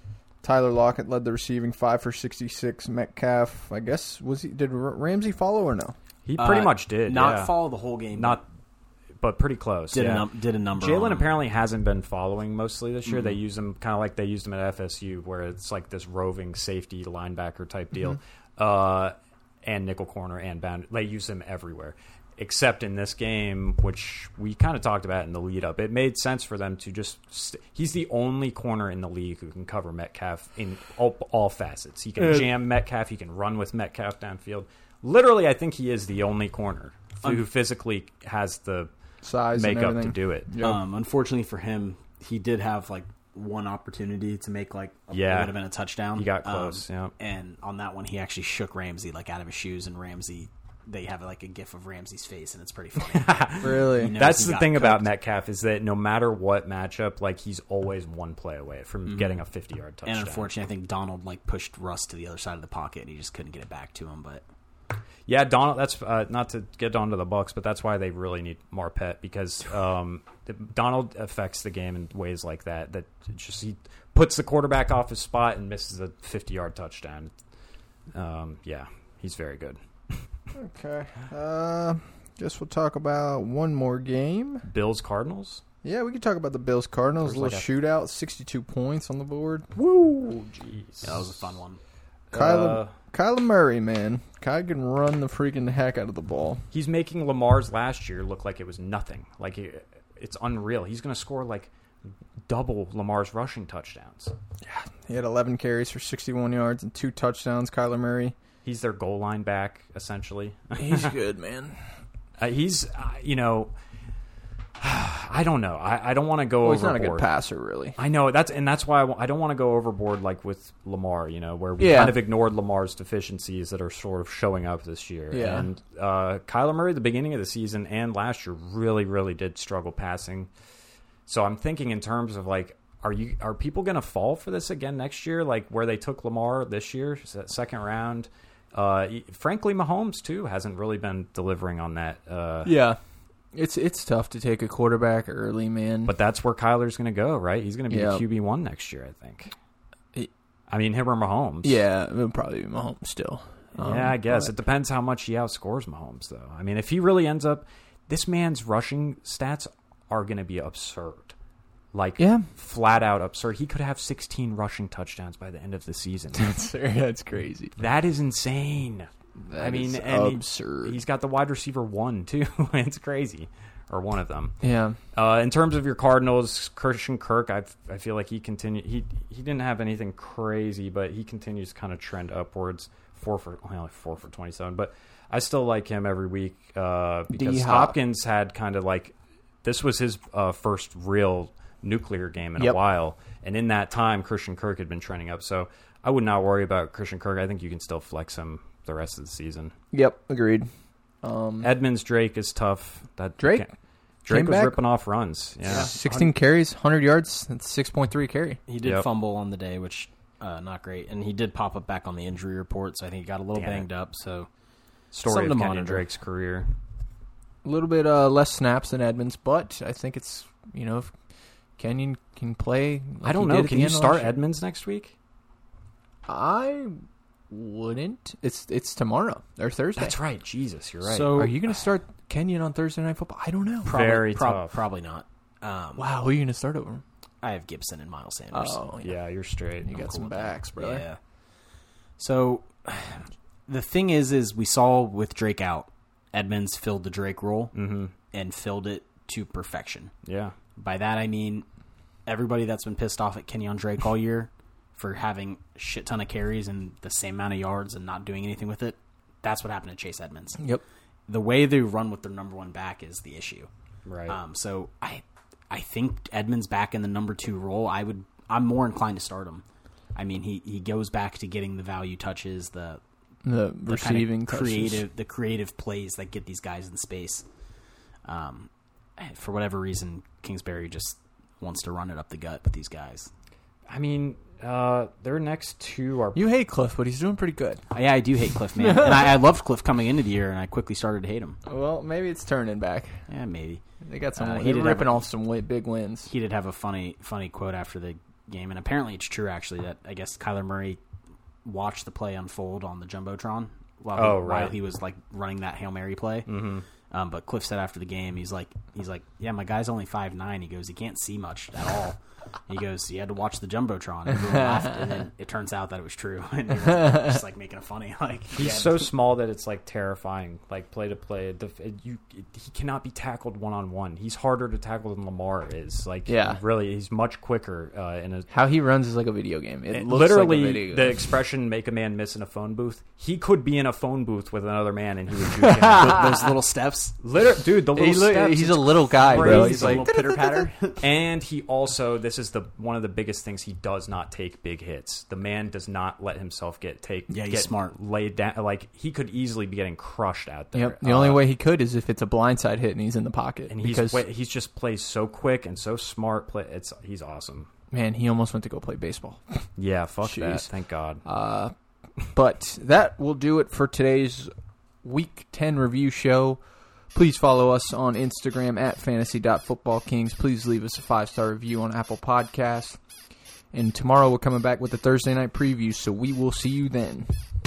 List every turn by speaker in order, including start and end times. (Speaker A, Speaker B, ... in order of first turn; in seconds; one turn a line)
Speaker A: 0.4-5.9
Speaker B: 6.2-7.6
Speaker C: 6.4-8.4
Speaker B: 8.1-8.4
Speaker B: 9.2-38.9
Speaker C: 9.9-11.3
Speaker C: 13.1-13.3
Speaker A: 39.2-40.8
Speaker B: 39.5-40.5
Speaker C: 40.6-55.0
Speaker B: 45.1-45.6
Speaker B: 46.1-47.1
Speaker B: 53.0-60.5
Speaker A: 53.6-54.1
Speaker C: 59.1-59.3
Speaker C: 60.0-64.4
Speaker B: 65.3-77.3
Speaker B: 78.1-80.2
Speaker A: 80.5-84.7
Speaker B: 84.7-85.6
Speaker A: 85.8-89.8
Speaker B: 87.2-87.7
Speaker B: 89.8-91.5
Speaker C: 91.0-91.8
Speaker B: 92.3-92.9
Speaker A: 92.3-96.6
Speaker B: 96.7-101.7
Speaker B: 102.5-104.3
Speaker A: 104.6-108.3
Speaker B: 108.6-111.1
Speaker A: 110.7-111.8
Speaker B: 112.4-113.7
Speaker B: 114.8-117.2
Speaker A: 116.6-118.0
Speaker B: 118.0-130.5
Speaker A: 121.8-122.2
Speaker A: 125.3-125.7
Speaker B: 131.2-142.7
Speaker A: 142.6-143.0
Speaker A: 143.5-146.1
Speaker B: 146.0-149.5
Speaker A: 147.9-148.2
Speaker B: 150.7-151.8
Speaker A: 151.6-154.5
Speaker B: 153.8-161.3
Speaker B: 161.9-166.5
Speaker A: 162.2-162.5
Speaker A: 166.3-167.7
Speaker B: 167.8-174.5
Speaker A: 169.5-171.0
Speaker A: 174.6-175.0
Speaker B: 175.1-199.7
Speaker A: 187.3-188.0
Speaker A: 199.9-200.7
Speaker A: 201.2-201.7
Speaker B: 201.6-203.7
Speaker A: 203.4-203.7
Speaker B: 204.2-205.9
Speaker A: 204.3-204.8
Speaker C: 205.6-206.3
Speaker A: 205.7-208.6
Speaker C: 208.7-214.5
Speaker B: 208.8-209.1
Speaker B: 213.5-213.8
Speaker B: 215.1-216.7
Speaker C: 215.2-216.0
Speaker A: 217.6-221.1
Speaker A: 221.8-224.3
Speaker B: 223.2-225.1
Speaker A: 226.3-230.2
Speaker B: 230.0-231.5
Speaker C: 231.0-231.6
Speaker A: 231.3-233.9
Speaker C: 233.8-236.1
Speaker B: 233.8-234.8
Speaker A: 236.0-237.0
Speaker C: 237.4-238.9
Speaker A: 238.5-239.2
Speaker B: 239.0-240.0
Speaker A: 239.8-241.0
Speaker C: 239.9-241.2
Speaker C: 242.2-247.7
Speaker B: 247.7-248.1
Speaker C: 248.3-250.1
Speaker B: 250.2-250.5
Speaker C: 250.8-251.7
Speaker C: 252.3-260.6
Speaker C: 261.3-263.7
Speaker B: 264.1-264.4
Speaker C: 264.3-269.6
Speaker C: 270.1-273.0
Speaker A: 273.4-275.0
Speaker C: 273.9-277.4
Speaker C: 278.2-283.3
Speaker B: 283.9-286.4
Speaker A: 286.3-287.8
Speaker C: 287.9-291.6
Speaker A: 288.8-289.4
Speaker A: 291.6-293.2
Speaker C: 293.3-293.8
Speaker A: 294.0-296.3
Speaker C: 294.4-295.2
Speaker C: 296.3-301.0
Speaker C: 301.6-306.5
Speaker B: 304.1-304.8
Speaker B: 306.5-306.8
Speaker C: 307.1-319.1
Speaker B: 318.5-328.5
Speaker A: 326.3-326.6
Speaker A: 328.5-331.3
Speaker B: 329.9-336.4
Speaker A: 335.4-336.5
Speaker C: 336.0-337.1
Speaker B: 337.2-340.1
Speaker A: 337.9-340.7
Speaker C: 339.3-341.0
Speaker B: 341.0-351.4
Speaker C: 347.3-347.9
Speaker A: 350.7-354.2
Speaker B: 353.7-357.7
Speaker A: 357.9-359.4
Speaker B: 359.8-361.2
Speaker A: 360.2-360.7
Speaker A: 361.2-361.7
Speaker A: 362.3-364.5
Speaker A: 365.0-366.6
Speaker A: 367.1-373.0
Speaker A: 373.7-377.3